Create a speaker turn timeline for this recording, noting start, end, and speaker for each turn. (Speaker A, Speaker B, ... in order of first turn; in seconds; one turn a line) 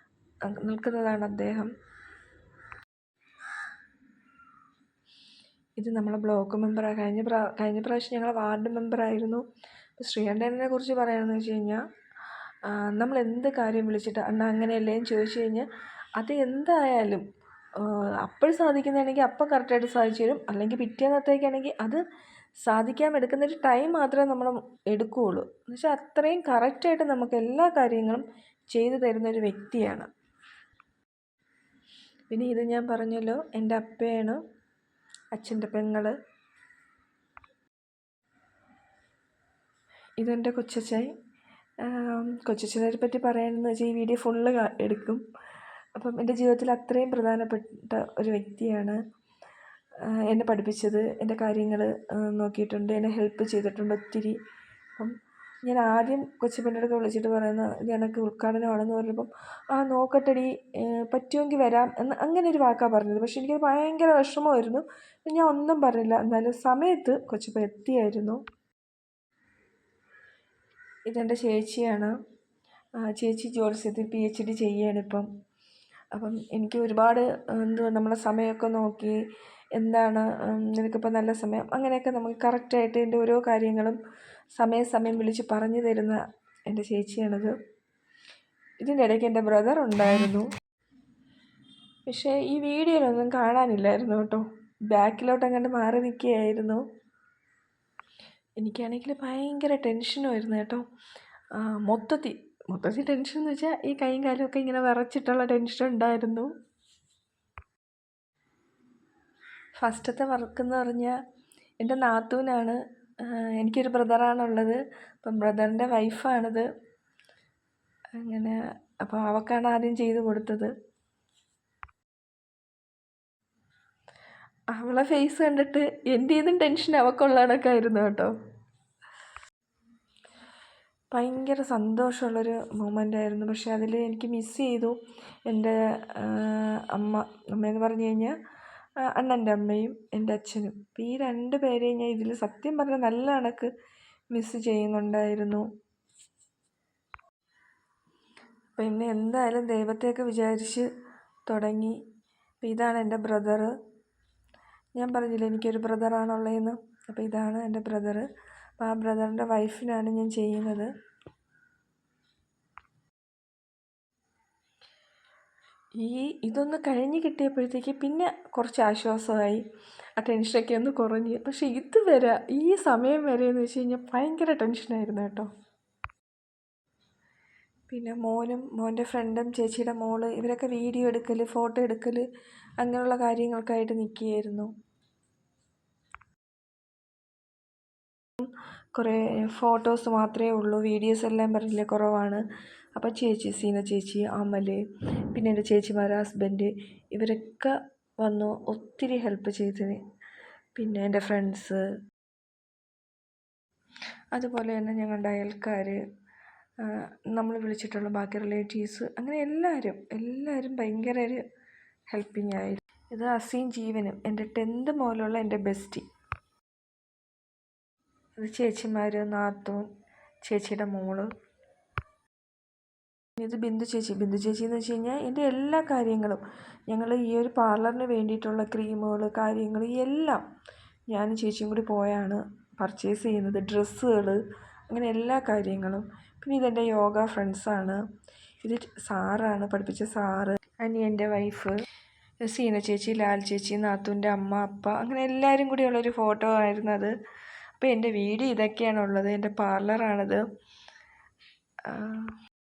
Speaker A: 0.5-1.7
Speaker A: 5.8-9.4
Speaker A: 10.0-11.8
Speaker A: 12.6-15.7
Speaker A: 16.2-17.2
Speaker A: 17.8-22.0
Speaker A: 22.6-30.1
Speaker A: 32.3-34.4
Speaker A: 35.3-36.1
Speaker A: 40.2-41.1
Speaker A: 41.8-45.2
Speaker A: 46.0-49.0
Speaker A: 50.0-54.4
Speaker A: 55.0-68.4
Speaker A: 71.1-72.1
Speaker A: 73.0-75.3
Speaker A: 76.1-79.2
Speaker A: 79.8-84.0
Speaker A: 84.5-87.6
Speaker A: 88.8-90.5
Speaker A: 92.1-96.8
Speaker A: 98.6-100.8
Speaker A: 101.5-106.5
Speaker A: 109.8-111.2
Speaker A: 111.8-116.7
Speaker A: 118.2-120.7
Speaker A: 124.7-128.3
Speaker A: 131.1-135.0
Speaker A: 135.5-138.4
Speaker A: 139.1-143.7
Speaker A: 144.3-145.6
Speaker A: 148.8-150.9
Speaker A: 151.5-152.0
Speaker A: 152.6-153.7
Speaker A: 155.0-158.3
Speaker A: 158.8-160.9
Speaker A: 166.0-169.6
Speaker A: 170.2-175.5
Speaker A: 177.9-182.2
Speaker A: 182.8-184.7
Speaker A: 188.4-192.4
Speaker A: 193.0-200.0
Speaker A: 200.8-201.8
Speaker A: 204.3-206.0
Speaker A: 206.8-211.4
Speaker A: 212.1-216.1
Speaker A: 218.4-219.9
Speaker A: 220.4-221.3
Speaker A: 223.4-230.4
Speaker A: 231.1-238.0
Speaker A: 238.6-241.8
Speaker A: 242.4-247.1
Speaker A: 247.8-250.4
Speaker A: 251.9-252.3